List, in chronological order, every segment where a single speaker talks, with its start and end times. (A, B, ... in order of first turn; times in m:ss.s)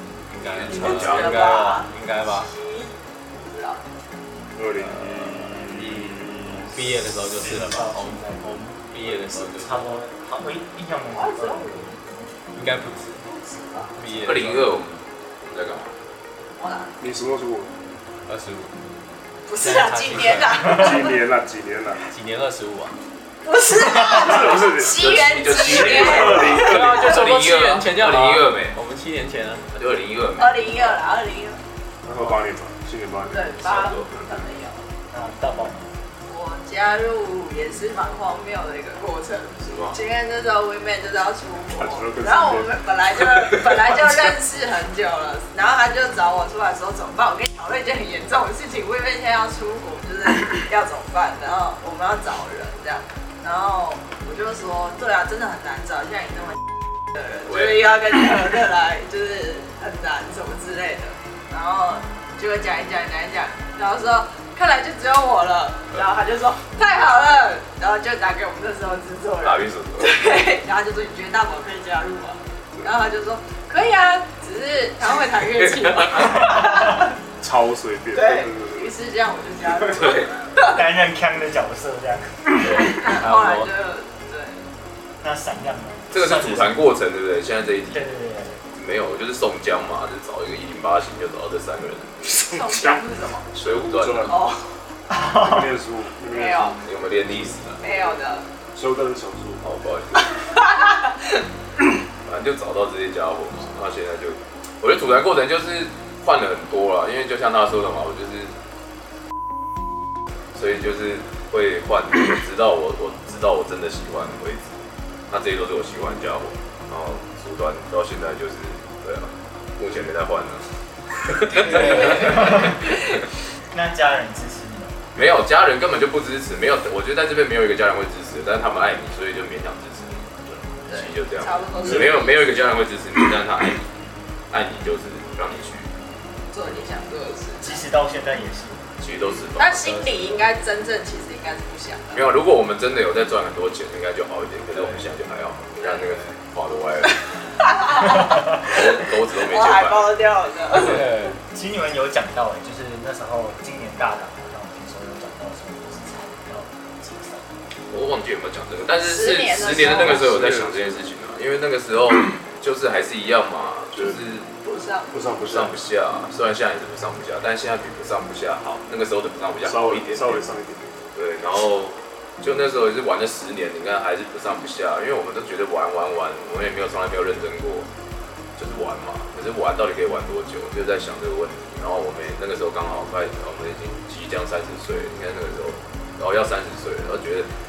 0:00.3-0:02.5 A
0:00.4-0:01.4 B
0:00.7-0:03.8 C
0:04.6-0:06.8 D
0:04.8-0:10.0 A
0:07.4-0:12.3 E
0:11.1-0:11.9 C
0:12.5-0:13.2 A
0:13.2-0:14.0 C
0:14.0-0:14.8 A
0:14.2-0:15.9 B
0:16.6-0:17.0 C
0:17.0-0:17.7 D
0:18.3-0:18.7 A
0:19.4-0:21.2 C
0:19.6-0:20.6 A
0:20.6-0:22.0 D
0:22.1-0:23.0 A
0:23.4-0:27.3 C
0:24.0-0:25.0 D
0:24.8-0:28.8 B
0:25.6-0:27.1 D
0:26.6-0:29.7 A
0:29.7-0:30.7 B
0:30.4-0:31.6 C
0:32.0-0:33.5 D
0:33.3-0:34.8 C
0:33.6-0:34.1 B
0:34.1-0:34.4 D
0:35.1-0:35.9 E
0:36.3-1:17.1 C
0:39.6-0:40.0 B
0:41.7-0:42.8 D
0:57.5-0:57.7 B
1:09.4-1:10.2 B
1:15.5-1:16.6 B
1:17.4-1:18.9 D
1:18.1-1:20.8 C
1:19.7-1:20.2 D
1:19.8-1:20.3 B
1:20.7-1:22.9 E
1:22.6-1:23.0 B
1:22.8-1:24.6 C
1:23.2-1:23.7 A
1:25.2-1:26.8 E
1:26.1-1:28.1 B
1:27.9-1:28.6 E
1:28.7-1:32.4 B
1:32.3-1:34.5 D
1:32.4-1:33.5 C
1:33.6-1:34.4 B
1:34.3-1:34.7 C
1:35.1-1:35.6 E
1:35.2-1:38.1 D
1:36.2-1:36.8 C
1:36.8-1:37.8 B
1:37.8-1:38.4 C
1:38.7-1:39.6 D
1:39.6-1:40.5 B
1:40.2-1:41.4 C
1:42.2-1:48.5 B
1:50.5-1:54.8 B
1:55.3-2:03.0 B
2:01.7-2:02.1 A
2:01.7-2:02.5 C
2:02.2-2:02.8 E
2:03.7-2:05.0 E
2:05.1-2:13.8 B
2:10.9-2:12.8 C
2:14.5-2:15.9 B
2:16.5-2:17.8 C
2:17.6-2:18.9 E
2:19.0-2:20.3 B
2:19.6-2:22.3 C
2:22.1-2:27.2 B
2:24.7-2:25.0 A
2:25.8-2:26.2 C
2:27.0-2:31.2 C
2:28.2-2:30.1 B
2:30.9-2:31.3 A
2:31.5-2:37.6 E
2:37.9-2:44.5 B
2:39.0-2:40.3 C
2:39.6-2:41.0 D
2:43.9-2:44.2 D
2:44.6-2:45.1 C
2:45.1-2:45.7 D
2:45.5-2:50.4 B
2:49.6-2:51.0 D
2:51.1-2:57.9 B
2:58.6-3:07.5 B